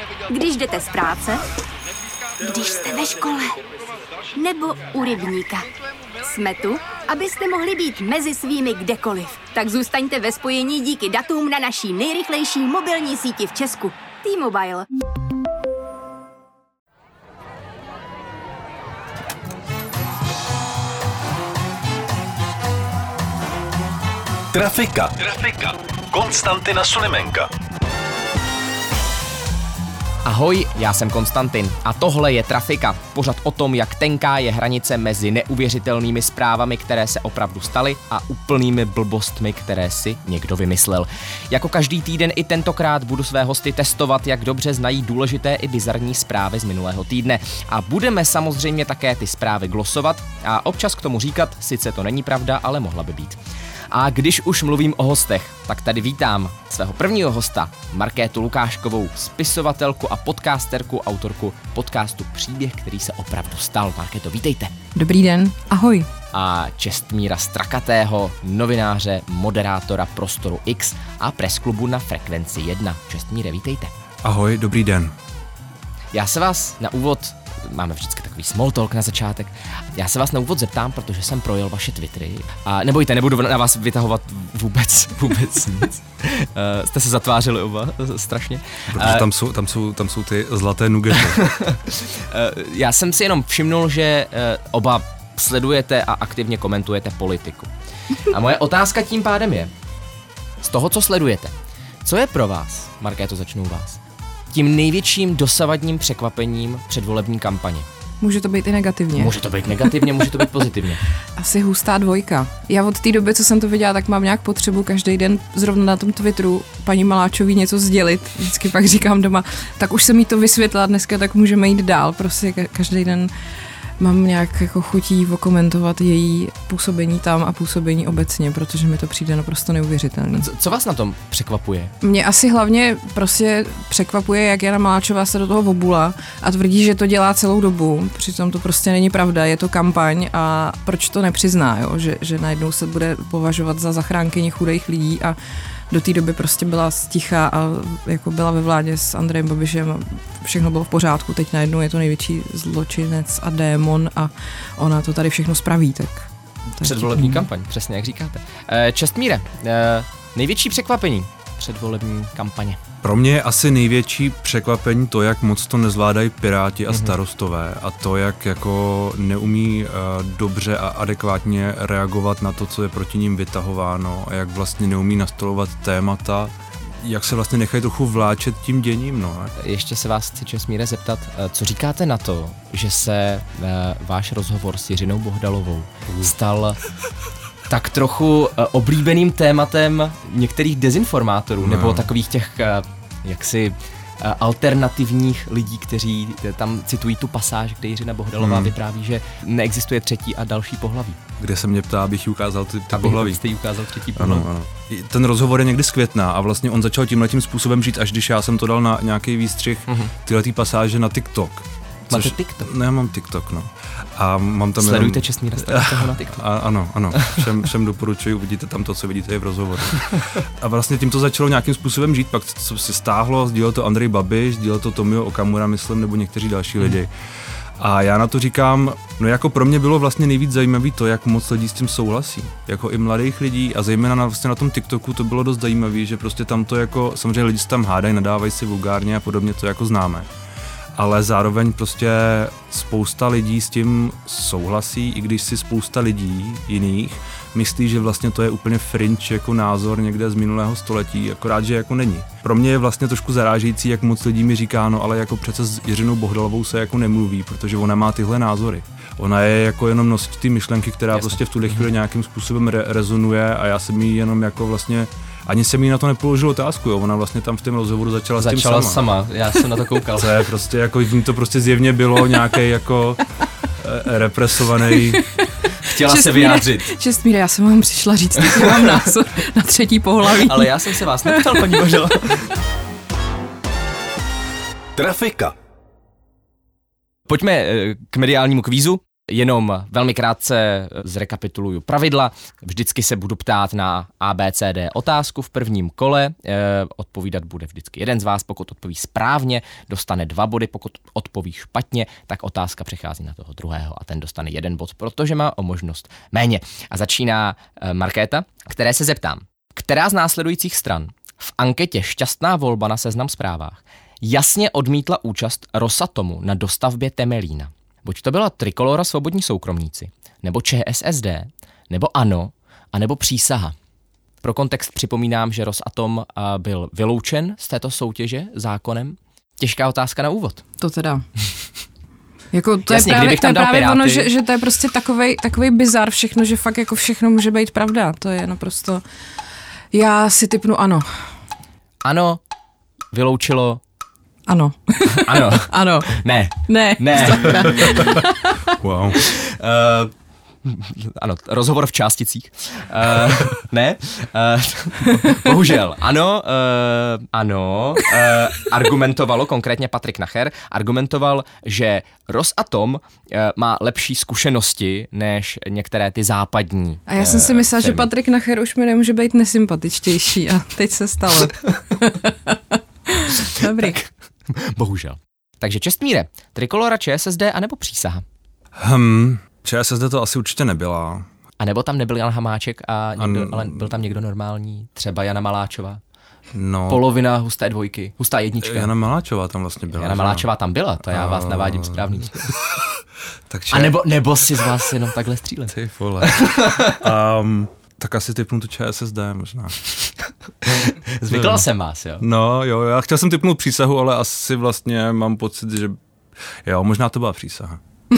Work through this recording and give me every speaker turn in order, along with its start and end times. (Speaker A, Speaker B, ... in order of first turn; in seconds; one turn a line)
Speaker A: 0.3-1.4
Speaker A: 2.4-3.6
Speaker A: 4.3-5.7
Speaker A: 6.2-14.9
Speaker B: 24.5-27.5
Speaker C: 30.2-53.4
Speaker C: 53.9-64.7
Speaker D: 64.9-66.1
Speaker C: 66.3-73.9
Speaker E: 74.2-75.1
Speaker C: 76.1-89.3
Speaker E: 88.9-91.4
Speaker C: 91.1-99.7
Speaker C: 100.6-101.5
Speaker C: 102.0-104.0
Speaker C: 104.5-107.9
Speaker D: 108.2-109.4
Speaker C: 109.2-111.0
Speaker D: 111.3-123.3
Speaker D: 124.0-130.5
Speaker C: 130.4-131.9
Speaker D: 132.0-145.4
Speaker D: 145.9-156.3
Speaker C: 156.7-162.8
Speaker D: 156.8-157.5
Speaker E: 163.0-179.5
Speaker C: 166.9-167.2
Speaker C: 179.6-186.8
Speaker C: 187.7-201.2
Speaker E: 191.6-192.1
Speaker E: 198.4-198.7
Speaker E: 201.4-203.4
Speaker C: 202.9-204.5
Speaker E: 204.2-227.1
Speaker C: 209.9-210.1
Speaker C: 212.1-212.7
Speaker C: 214.8-216.4
Speaker C: 217.1-217.4
Speaker E: 227.8-240.3
Speaker E: 240.9-269.0
Speaker C: 261.1-261.8
Speaker C: 268.4-270.4
Speaker E: 270.1-275.3
Speaker C: 275.8-276.9
Speaker D: 276.0-282.0
Speaker C: 278.4-279.0
Speaker C: 280.2-282.5
Speaker B: 284.9-285.5
Speaker C: 287.3-323.7
Speaker C: 324.4-330.6
Speaker D: 330.8-331.2
Speaker D: 332.5-339.0
Speaker C: 332.9-334.3
Speaker D: 339.9-341.1
Speaker C: 342.0-342.4
Speaker C: 343.1-343.8
Speaker D: 344.5-348.6
Speaker C: 345.1-348.0
Speaker E: 347.4-349.2
Speaker C: 349.1-350.1
Speaker C: 350.6-368.1
Speaker D: 367.1-374.0
Speaker C: 373.3-378.2
Speaker E: 378.7-381.2
Speaker C: 381.6-386.0
Speaker E: 383.2-384.0
Speaker E: 386.5-387.1
Speaker C: 386.9-388.9
Speaker E: 388.6-390.4
Speaker C: 389.9-392.5
Speaker E: 391.1-394.0
Speaker C: 393.7-397.1
Speaker E: 395.7-399.8
Speaker C: 400.6-402.2
Speaker E: 401.3-401.6
Speaker E: 402.2-406.0
Speaker E: 406.6-407.8